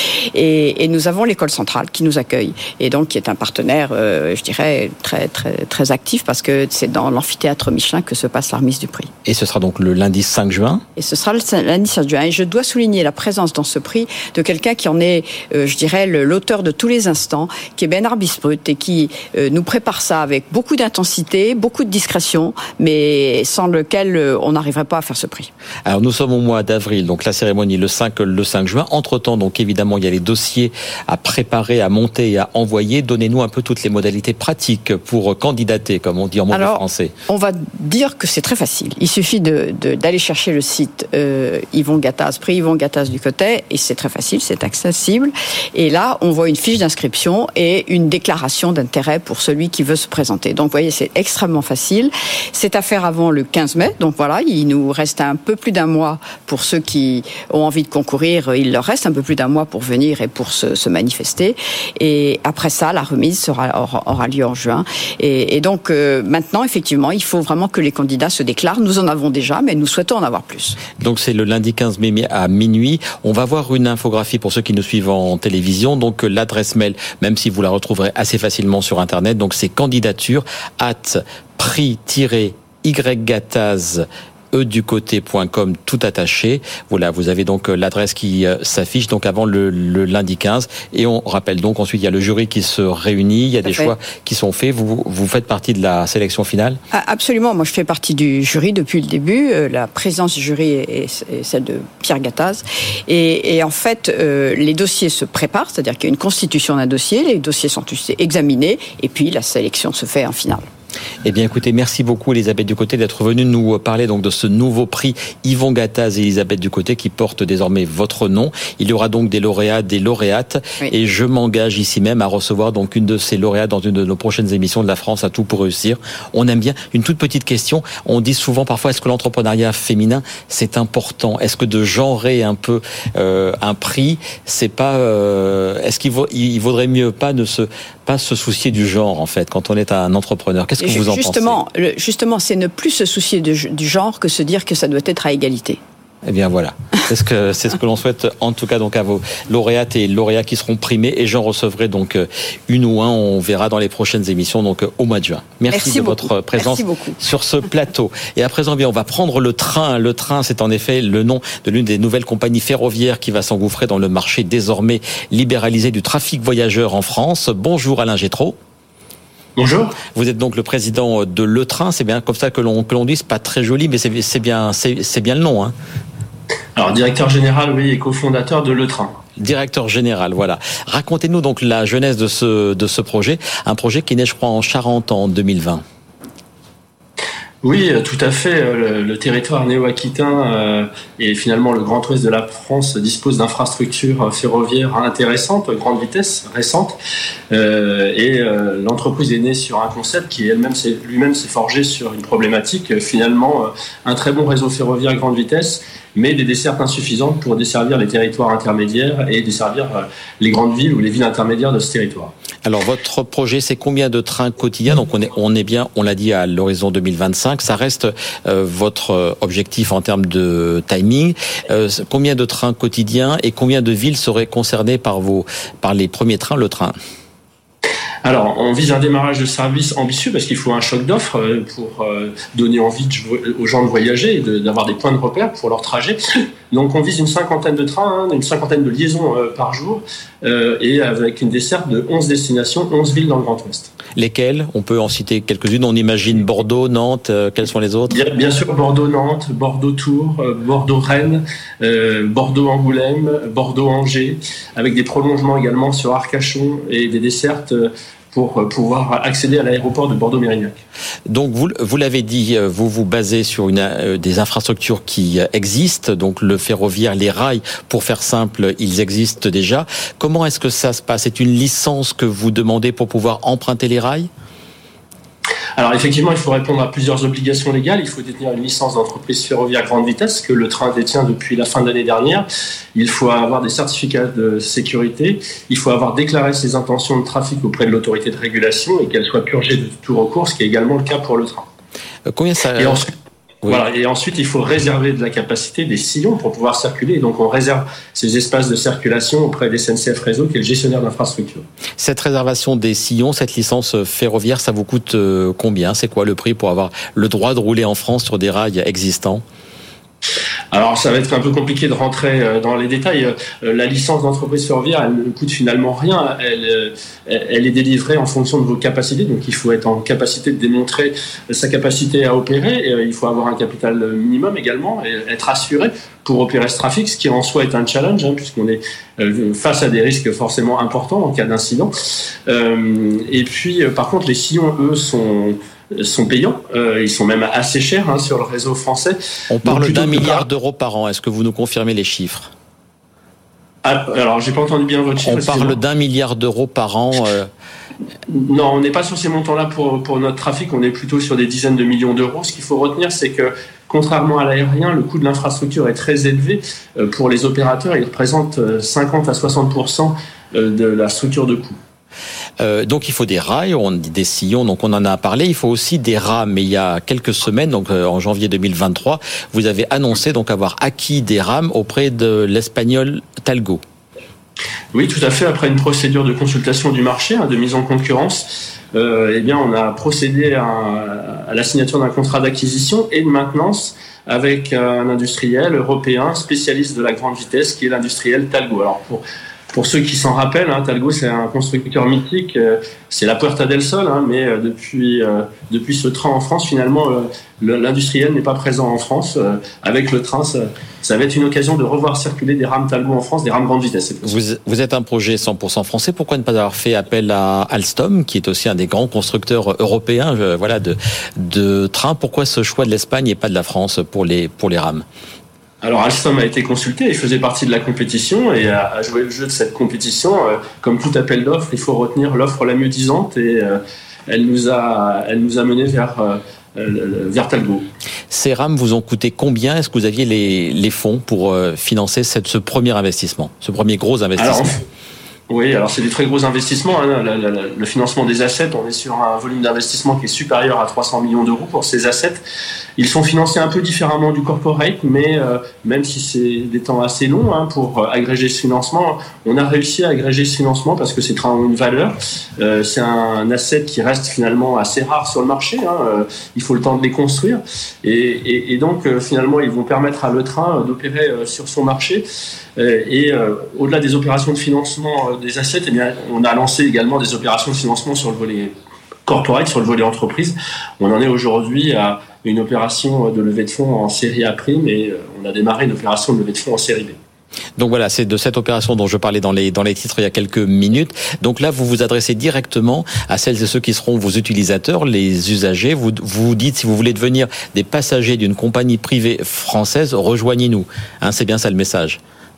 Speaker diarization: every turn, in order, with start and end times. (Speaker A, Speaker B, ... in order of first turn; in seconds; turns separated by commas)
Speaker A: 0.3-9.1, Speaker B: 9.2-10.8, Speaker A: 10.9-25.5, Speaker B: 25.8-37.1, Speaker A: 36.5-70.8, Speaker B: 71.0-96.8, Speaker A: 93.6-93.9, Speaker A: 96.9-110.7, Speaker B: 111.2-141.6, Speaker A: 140.8-145.8, Speaker B: 146.2-168.6, Speaker A: 155.7-157.2, Speaker C: 169.6-169.9, Speaker B: 170.1-175.7, Speaker C: 176.8-179.1, Speaker B: 179.4-185.8, Speaker C: 187.6-196.9, Speaker C: 197.5-212.3, Speaker B: 212.6-226.9, Speaker C: 228.2-236.2, Speaker C: 236.7-243.9, Speaker B: 244.2-248.2, Speaker C: 248.1-260.8, Speaker B: 261.3-274.3, Speaker C: 275.8-291.7, Speaker B: 292.3-293.1, Speaker C: 292.8-293.1, Speaker C: 293.6-301.6, Speaker B: 302.0-309.4, Speaker C: 310.7-340.4, Speaker B: 339.5-342.5, Speaker C: 343.8-345.8, Speaker B: 345.2-347.5, Speaker C: 348.3-361.8, Speaker B: 362.6-373.8, Speaker C: 374.9-404.3, Speaker B: 404.2-415.0, Speaker C: 415.8-427.9, Speaker B: 428.3-434.8, Speaker C: 434.4-434.8, Speaker C: 435.5-442.4, Speaker C: 443.0-462.2, Speaker C: 462.8-468.7, Speaker C: 469.3-477.2, Speaker B: 477.8-492.2